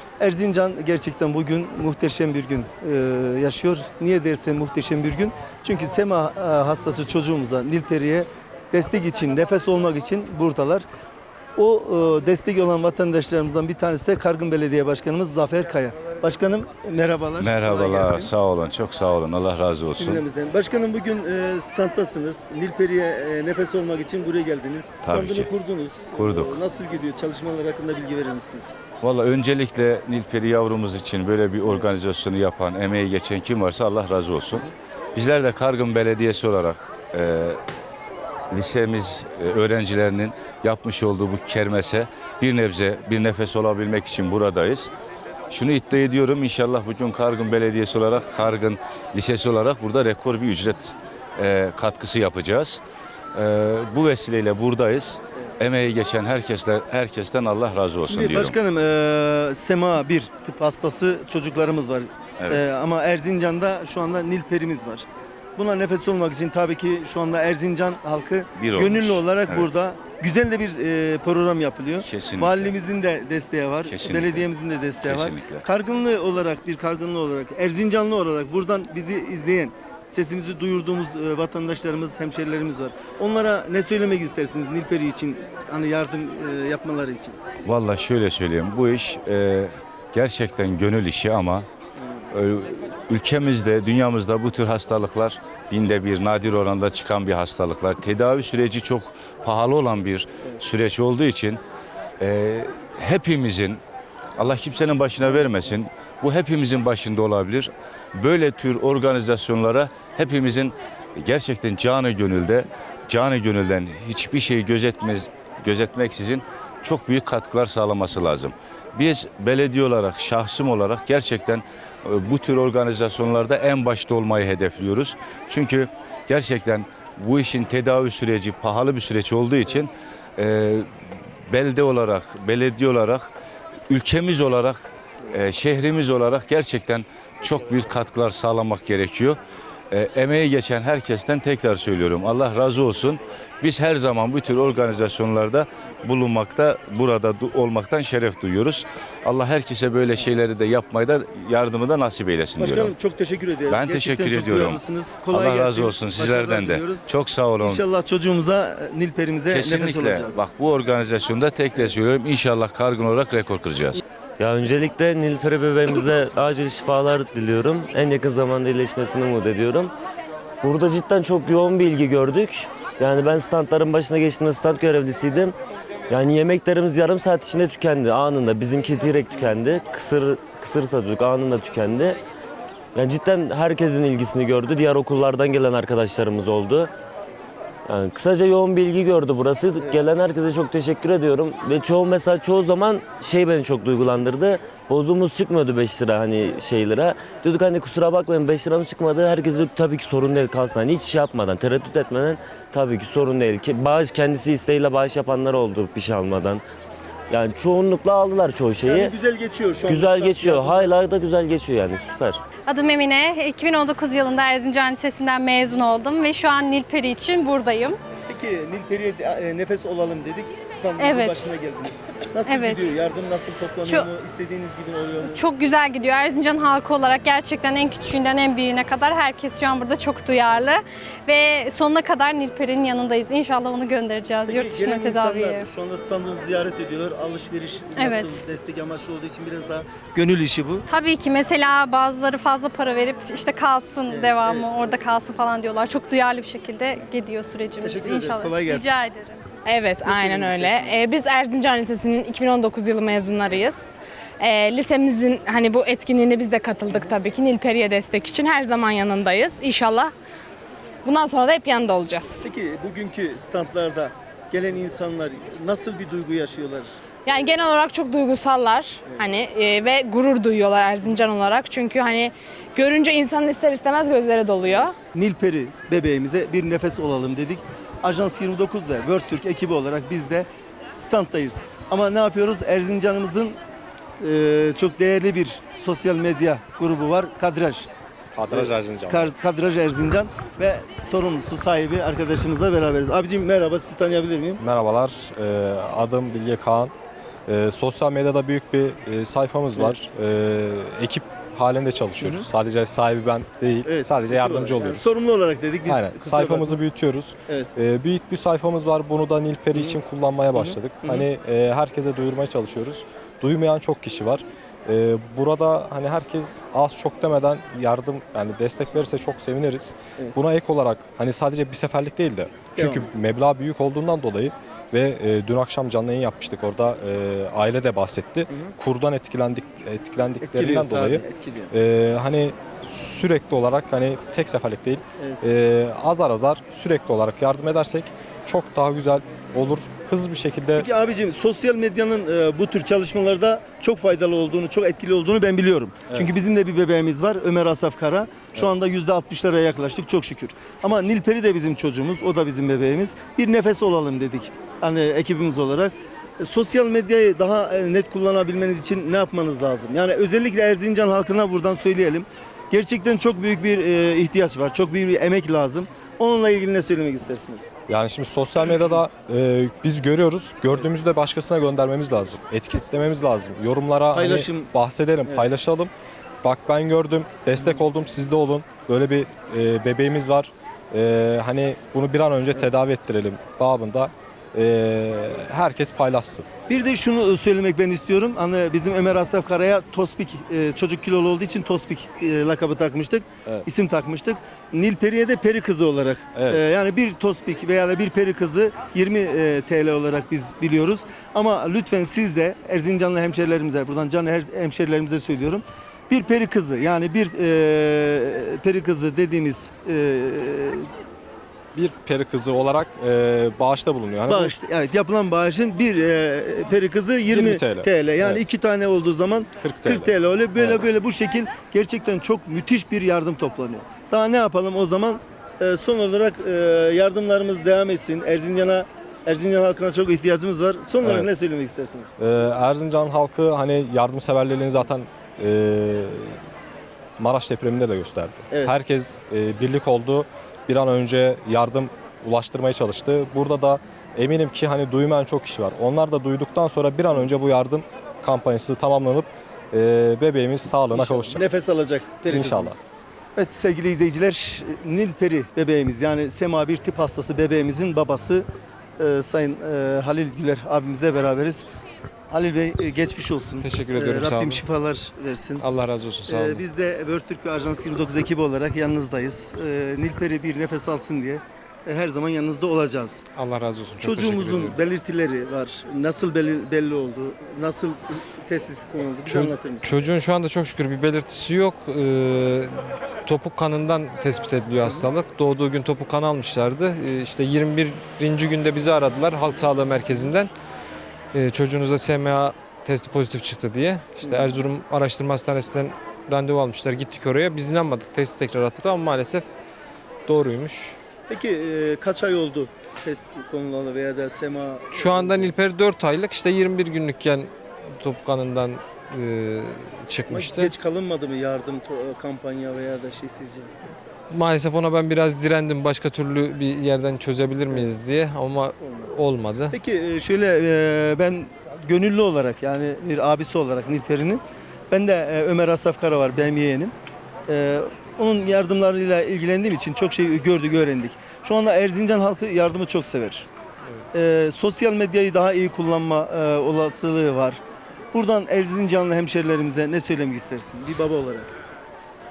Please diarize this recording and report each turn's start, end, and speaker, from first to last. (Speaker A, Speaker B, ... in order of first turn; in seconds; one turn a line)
Speaker A: 0.2-10.8
Speaker A: 11.6-18.3
Speaker B: 17.4-20.2
Speaker A: 20.0-28.7
Speaker B: 25.0-25.5
Speaker B: 26.1-26.6
Speaker B: 29.0-37.6
Speaker B: 38.5-44.9
Speaker B: 45.5-52.8
Speaker B: 53.3-58.6
Speaker A: 58.1-87.4
Speaker B: 62.4-62.7
Speaker B: 68.6-69.7
Speaker B: 72.0-72.8
Speaker B: 73.8-74.5
Speaker B: 75.0-75.6
Speaker B: 87.7-91.7
Speaker A: 92.0-92.3
Speaker B: 92.3-101.6
Speaker B: 102.2-103.8
Speaker B: 104.4-131.0
Speaker B: 131.5-133.3
Speaker B: 133.9-139.4
Speaker B: 139.9-152.9
Speaker A: 152.6-157.1
Speaker B: 153.7-157.8
Speaker A: 157.6-160.4
Speaker B: 159.5-164.0
Speaker C: 164.4-169.9
Speaker C: 170.6-175.6
Speaker C: 176.1-182.2
Speaker C: 182.9-186.9
Speaker C: 187.9-206.6
Speaker C: 207.3-209.1
Speaker A: 208.8-210.9
Speaker C: 209.9-212.4
Speaker D: 212.7-218.0
Speaker A: 218.3-225.4
Speaker D: 221.0-221.5
Speaker D: 222.5-222.9
Speaker D: 225.3-235.7
Speaker A: 234.4-240.8
Speaker D: 238.0-238.4
Speaker D: 240.9-249.4
Speaker A: 244.1-244.7
Speaker A: 247.8-248.9
Speaker E: 249.7-253.8
Speaker A: 250.1-251.0
Speaker E: 254.4-260.1
Speaker E: 261.1-262.5
Speaker A: 262.4-266.9
Speaker E: 267.3-274.9
Speaker A: 275.1-283.6
Speaker A: 284.2-287.9
Speaker F: 288.4-289.3
Speaker A: 288.5-294.6
Speaker F: 294.6-296.9
Speaker F: 297.5-305.1
Speaker A: 302.2-302.5
Speaker A: 303.9-306.8
Speaker F: 305.9-340.9
Speaker A: 309.7-310.0
Speaker A: 310.5-311.3
Speaker A: 322.8-323.1
Speaker A: 328.5-328.8
Speaker A: 330.4-331.7
Speaker A: 335.2-335.4
Speaker A: 340.8-367.7
Speaker F: 367.9-375.9
Speaker A: 368.7-368.9
Speaker A: 374.1-374.7
Speaker F: 376.4-386.5
Speaker A: 377.6-377.9
Speaker A: 386.7-410.9
Speaker F: 411.8-414.6
Speaker A: 414.3-432.1
Speaker F: 417.3-418.4
Speaker F: 419.6-420.8
Speaker F: 431.0-431.3
Speaker F: 432.2-436.4
Speaker F: 437.2-451.4
Speaker A: 450.9-452.8
Speaker F: 452.3-452.8
Speaker A: 453.4-458.5
Speaker A: 459.0-461.7
Speaker A: 462.3-465.7
Speaker G: 463.6-464.6
Speaker G: 465.6-466.6
Speaker A: 466.3-473.2
Speaker G: 473.4-474.8
Speaker A: 474.0-480.0
Speaker G: 479.3-490.5
Speaker G: 491.3-499.5
Speaker A: 494.2-494.5
Speaker G: 500.3-501.0
Speaker A: 501.3-505.5
Speaker G: 504.9-510.7
Speaker A: 510.3-513.7
Speaker G: 514.3-519.8
Speaker A: 518.8-519.1
Speaker A: 519.7-526.9
Speaker A: 527.5-533.5
Speaker A: 534.1-537.6
Speaker A: 538.1-541.5